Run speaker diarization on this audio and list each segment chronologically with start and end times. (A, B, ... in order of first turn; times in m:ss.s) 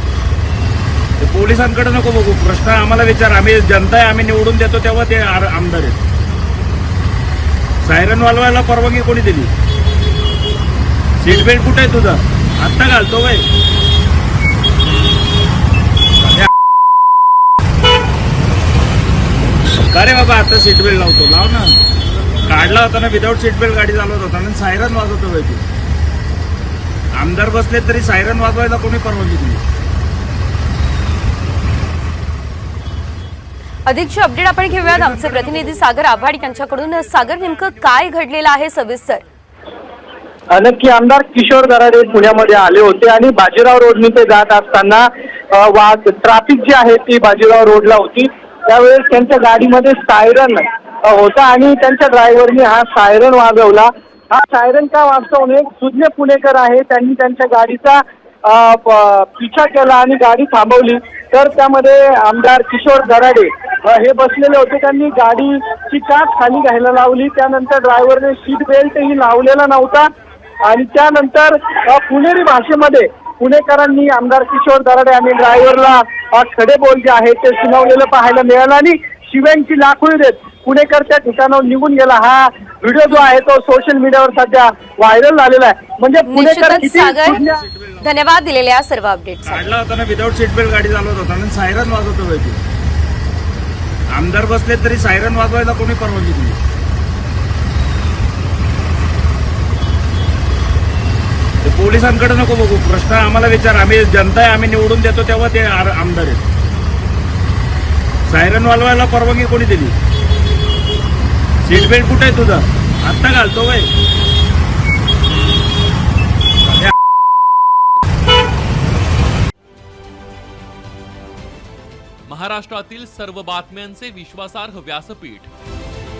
0:01.2-0:06.0 A
0:07.8-0:09.5 A
0:11.2-0:13.4 A
0:16.2-0:16.5 A
0:19.9-0:21.8 A
0:22.4-0:25.6 A
0:27.2-0:29.6 A
0:33.8-0:39.2 B
0:34.7-0:36.6 A
0:40.5-1:10.1 C
1:10.6-1:27.6 C
1:26.3-1:27.4 B
1:27.4-1:28.1 A
1:28.0-1:29.7 B
1:29.4-1:32.6 A
1:34.1-1:36.6 A
1:41.6-1:46.4 A
1:48.3-1:49.9 A
1:51.6-1:53.9 A
2:02.3-2:05.5 D